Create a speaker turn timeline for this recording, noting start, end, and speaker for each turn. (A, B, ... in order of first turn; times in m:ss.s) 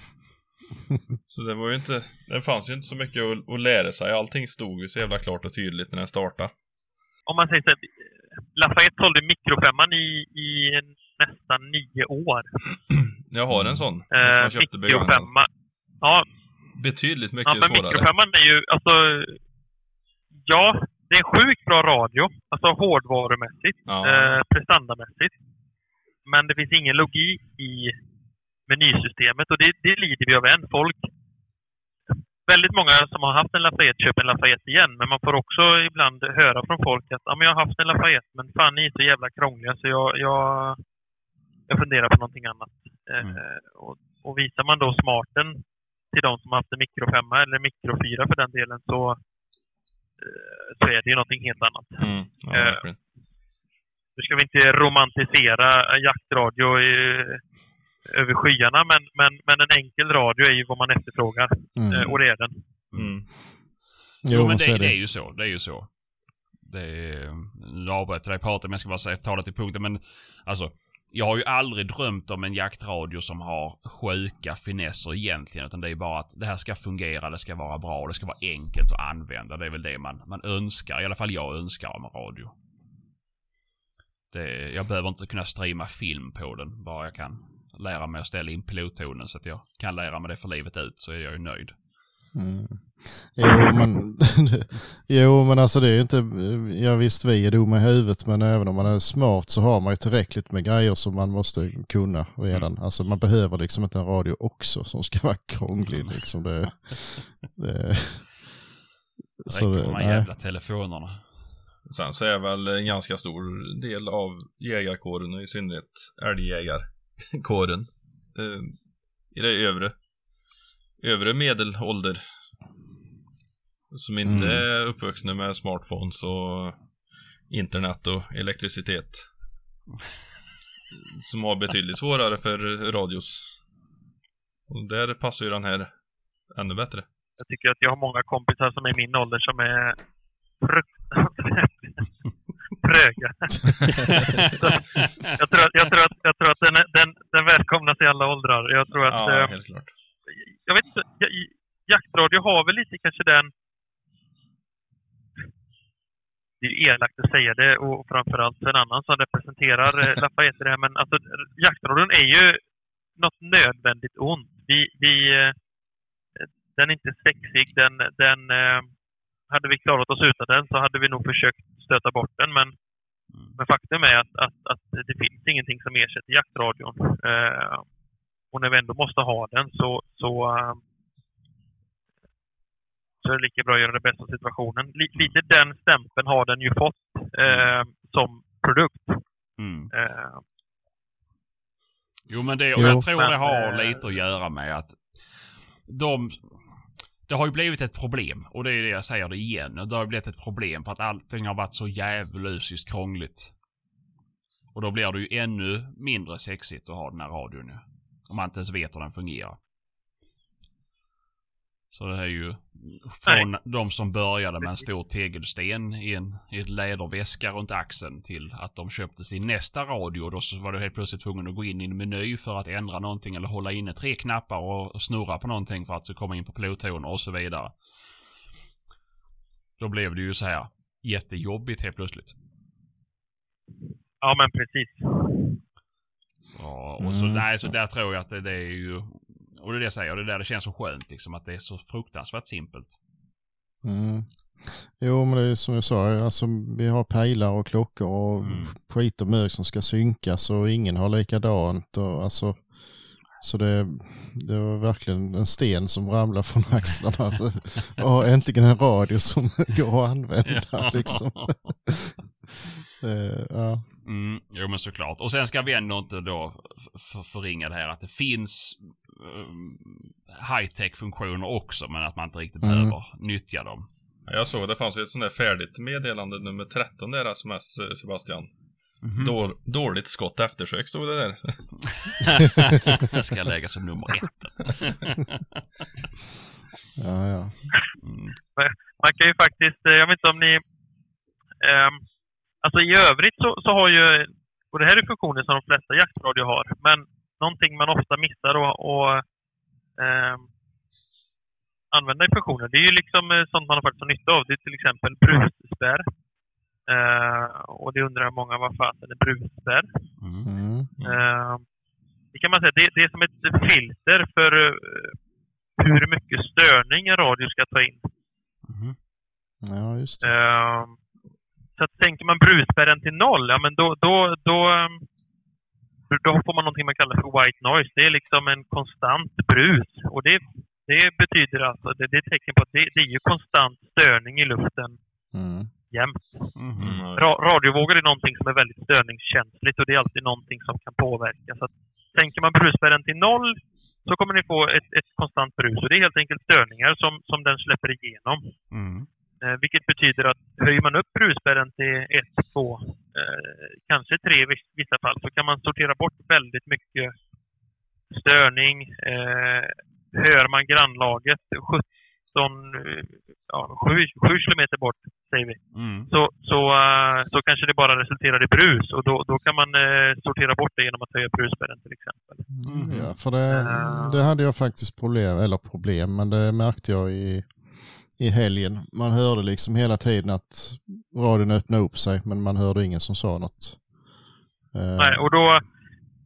0:01.3-0:06.5 A
0:07.3-0:12.5 B
0:13.3-0:15.3 A
0:13.5-0:13.8 C
0:14.1-0:15.5 B
0:16.0-0:16.3 B
0:16.8-0:18.1 A
0:17.4-0:19.4 B
0:20.4-0:25.3 B
0:23.9-0:24.4 A
0:26.2-0:28.0 B
0:28.7-0:31.1 B
0:32.5-0:40.8 B
0:41.7-0:49.2 B
0:50.2-0:52.8 B
0:52.0-0:53.0 A
0:54.2-0:57.4 B
0:58.1-1:02.6 B
1:01.8-1:02.1 C
1:02.9-1:03.3 A
1:04.2-1:05.0 C
1:04.3-1:06.0 D
1:06.6-1:22.5 D
1:24.3-1:31.8 D
1:32.3-1:48.5 C
1:49.4-1:50.3 C
1:49.5-1:51.5 D
1:51.9-1:58.8 A
1:59.3-2:00.0 A
2:01.0-2:02.2 A
2:03.9-2:06.8 A
2:04.2-2:04.6 C
2:07.5-2:09.2 A
2:11.0-2:13.6 A
2:14.7-2:15.9 A
2:16.6-2:17.1 A
2:17.4-2:20.0 B
2:20.6-2:22.1 B
2:22.8-2:29.6 B
2:24.4-2:25.1 D
2:29.1-2:29.9 A
2:30.3-2:33.5 B
2:36.6-2:42.6 B
2:43.2-2:45.6 B
2:46.4-2:48.9 B
2:49.5-2:52.7 B
2:53.3-2:53.6 D
2:53.6-2:57.8 B
2:58.5-3:00.8 B
3:03.2-3:09.2 B
3:07.4-3:07.7 D
3:09.6-3:09.9 D
3:09.9-3:10.4 B
3:12.3-3:23.5 D
3:12.8-3:13.1 C
3:12.8-3:14.1 B
3:24.7-3:29.6 D
3:31.9-3:48.0 D
3:49.8-3:52.4 D
3:54.2-3:55.6 B
3:56.5-4:03.0 D
3:57.0-3:57.5 C
4:03.8-4:12.8 C
4:08.4-4:08.8 D
4:13.4-4:22.1 C
4:20.5-4:21.7 D
4:23.0-4:23.8 C
4:24.0-4:33.9 D
4:32.6-4:32.9 C
4:34.3-4:38.5 A
4:39.0-4:39.3 D
4:39.2-4:41.7 A
4:41.9-4:45.4 D
4:47.0-4:47.6 C
4:48.0-4:48.4 D
4:48.6-4:50.6 B
4:51.6-4:52.0 B
4:52.6-4:59.2 B
5:00.0-5:00.5 B
5:01.9-5:06.0 B
5:06.9-5:09.9 B
5:10.2-5:10.5 D
5:10.4-5:10.9 C
5:11.0-5:11.2 A
5:11.0-5:11.6 B
5:12.3-5:15.2 B
5:15.8-5:18.1 B
5:18.7-5:19.0 D
5:19.6-5:20.3 C
5:20.2-5:21.0 B
5:21.8-5:25.0 B
5:26.1-5:35.0 B
5:35.3-5:35.7 C
5:35.9-5:36.5 B
5:36.6-5:37.0 D
5:36.8-5:37.3 A
5:37.2-5:48.5 B
5:48.7-5:49.1 D
5:49.4-5:57.1 B
5:58.1-6:12.5 B
6:05.7-6:06.1 D
6:12.5-6:23.8 C
6:12.7-6:13.2 D
6:13.5-6:14.2 B
6:24.7-6:25.2 C
6:25.0-6:25.6 B